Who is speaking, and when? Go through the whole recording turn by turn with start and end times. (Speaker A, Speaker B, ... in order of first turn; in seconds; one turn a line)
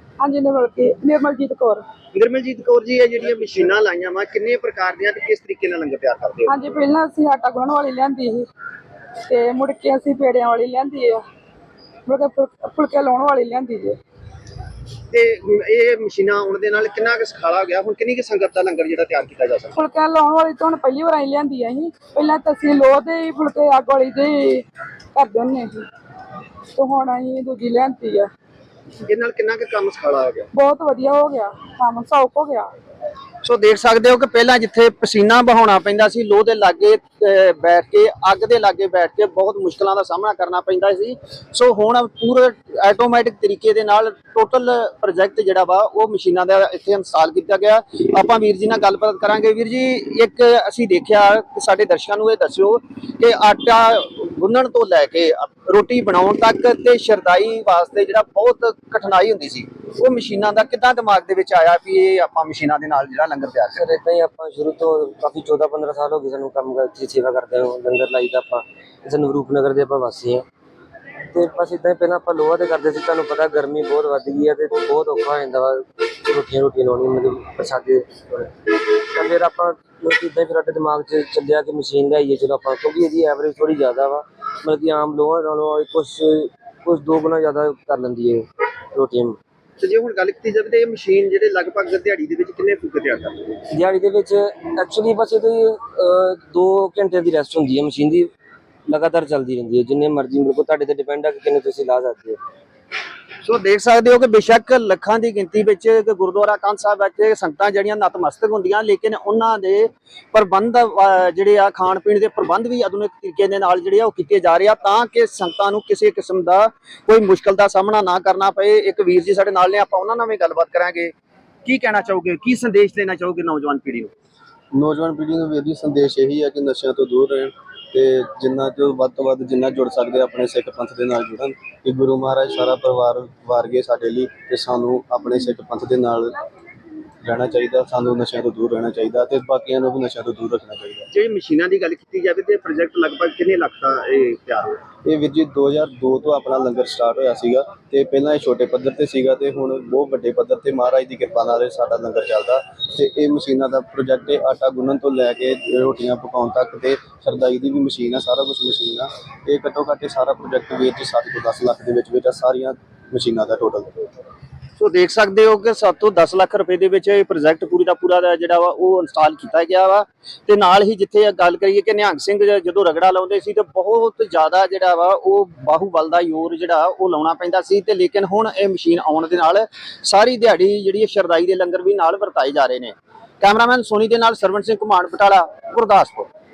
Speaker A: 0.2-1.8
Speaker B: 2.1-6.5
Speaker A: 6.5-8.4
Speaker A: 9.3-11.2
Speaker A: 12.1-13.9
Speaker B: 15.1-19.7
Speaker A: 19.8-24.6
Speaker A: 25.1-25.8
Speaker A: 26.8-28.2
Speaker B: 29.1-30.5
Speaker A: 30.6-32.6
Speaker B: 33.4-63.8
Speaker C: 63.7-70.4
Speaker C: 71.3-89.3
Speaker B: 89.8-93.6
Speaker C: 93.7-98.3
Speaker C: 98.9-102.4
Speaker B: 103.4-121.1
Speaker B: 121.6-124.1
Speaker D: 124.7-136.4
Speaker D: 137.2-141.1
Speaker B: 141.1-144.7
Speaker D: 145.0-164.0
Speaker B: 164.8-186.3